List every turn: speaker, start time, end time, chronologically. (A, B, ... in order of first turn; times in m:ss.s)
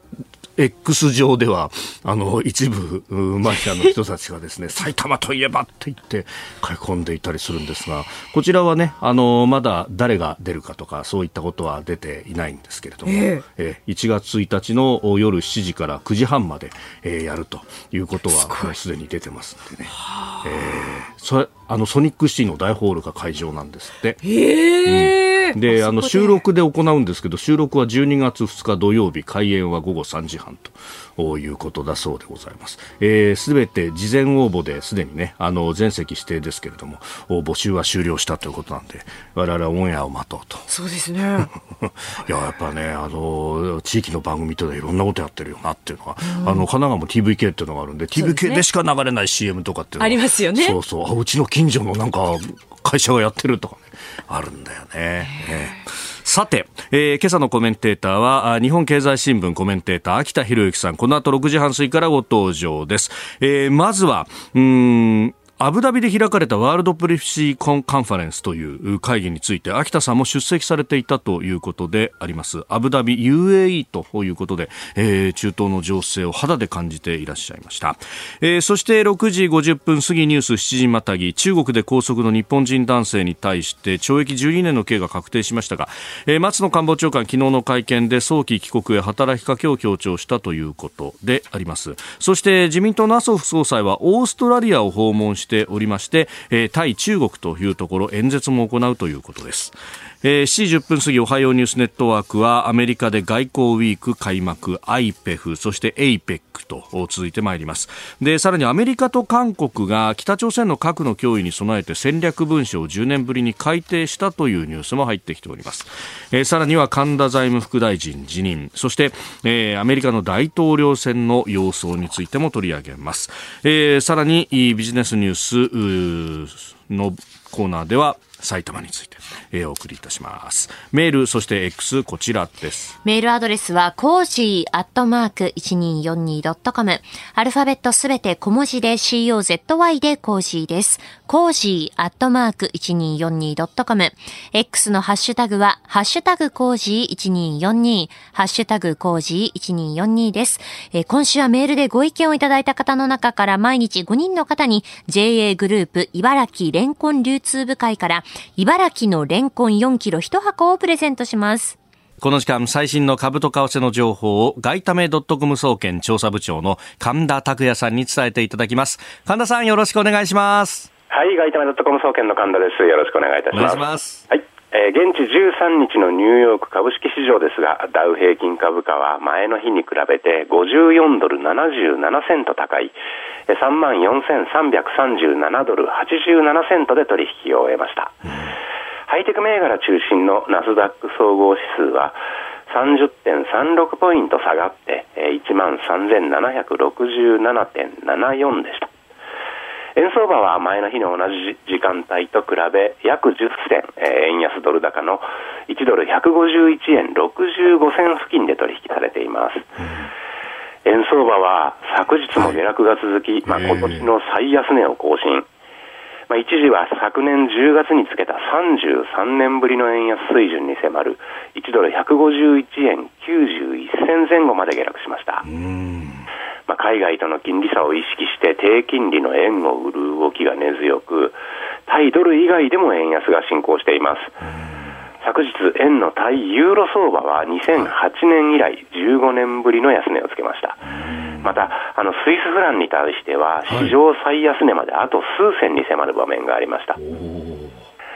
0:00.6-0:40.7 A
0:13.1-0:13.4 B
0:18.3-0:18.7 B
0:20.1-0:20.4 B
0:24.2-0:26.4 B
0:40.7-0:41.5 B
0:41.4-2:13.0 A
0:46.2-0:46.7 B
0:48.2-0:48.6 B
0:50.0-0:50.8 B
0:55.3-0:55.6 B
2:13.0-2:41.8 C
2:42.2-2:50.9 A
2:51.1-3:02.9 D
2:53.5-2:54.3 A
3:03.5-3:08.3 D
3:09.1-3:12.2 D
3:12.7-3:18.9 D
3:20.0-3:29.6 D
3:29.8-3:30.1 A
3:30.8-3:35.5 D
3:32.4-3:32.6 A
3:33.5-3:34.1 A
3:36.3-3:45.5 D
3:45.4-3:46.3 A
3:46.7-3:51.4 D
3:51.9-3:54.3 D
3:55.2-4:00.9 D
4:00.9-4:01.6 A
4:01.4-4:07.0 D
4:03.6-4:04.0 A
4:07.0-4:07.8 A